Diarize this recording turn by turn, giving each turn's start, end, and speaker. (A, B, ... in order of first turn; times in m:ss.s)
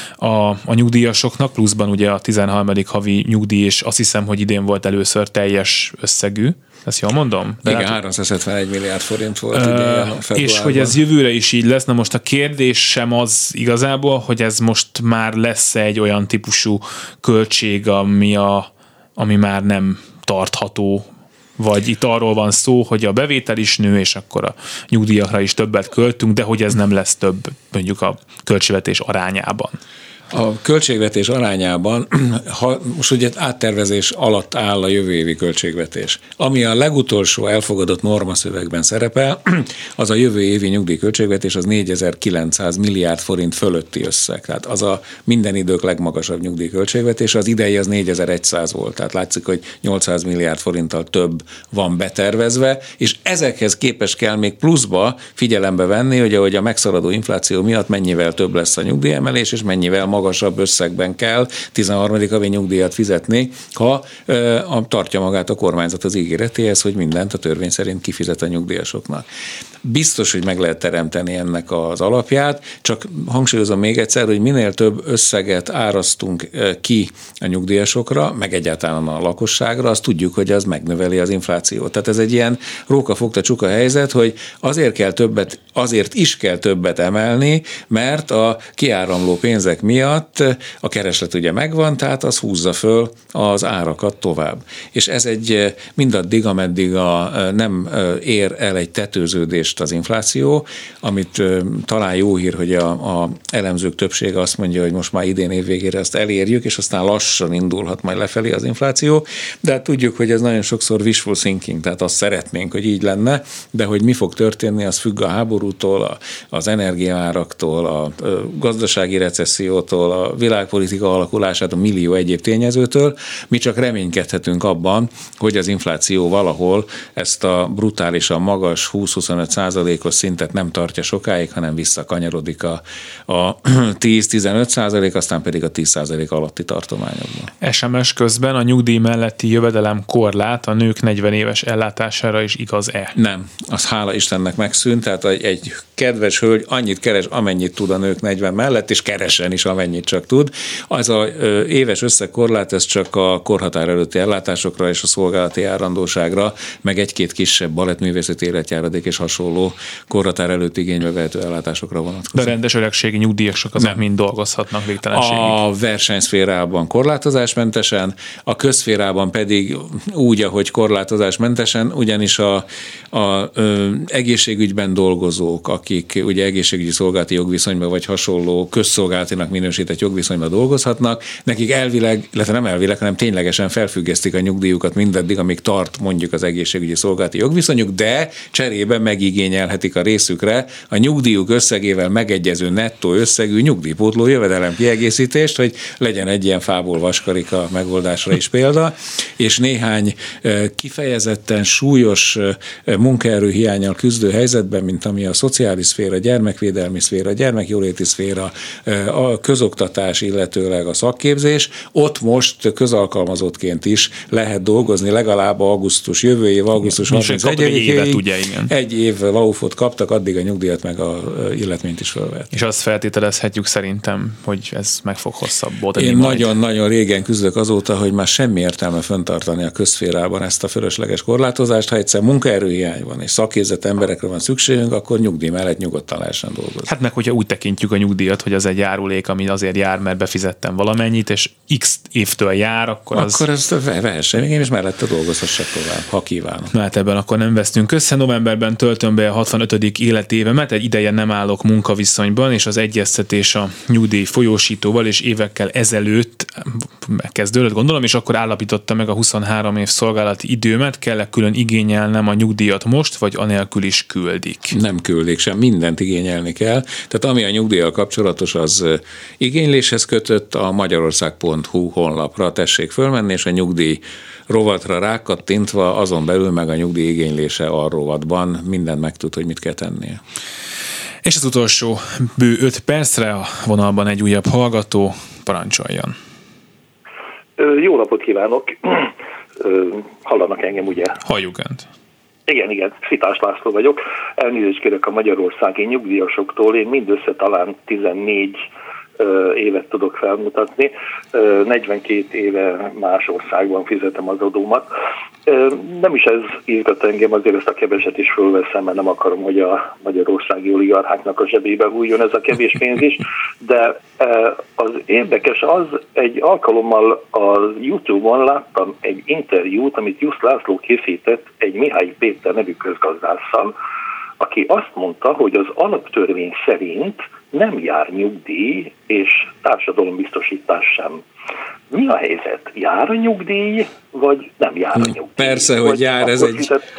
0:00.2-0:08.0 A
0:07.6-0:11.0 B
0:09.5-0:29.8 A
0:30.3-1:09.3 B
1:09.8-2:17.5 B
2:17.6-2:23.1 A
2:23.1-2:42.5 B
2:42.3-2:45.6 A
2:43.8-2:44.0 B
2:45.1-3:42.5 B
3:36.8-3:38.7 A
3:42.5-3:46.5 A
3:46.0-3:56.9 B
3:56.9-4:03.4 A
4:03.1-4:06.7 B
4:06.7-4:24.8 A
4:24.7-4:40.2 B
4:41.2-4:46.2 A
4:47.6-4:51.2 C
4:51.2-4:51.9 A
4:52.5-4:58.6 C
4:59.2-5:04.9 C
5:05.4-5:23.7 C
5:24.4-5:31.2 C
5:31.9-5:36.8 C
5:35.0-5:36.7 B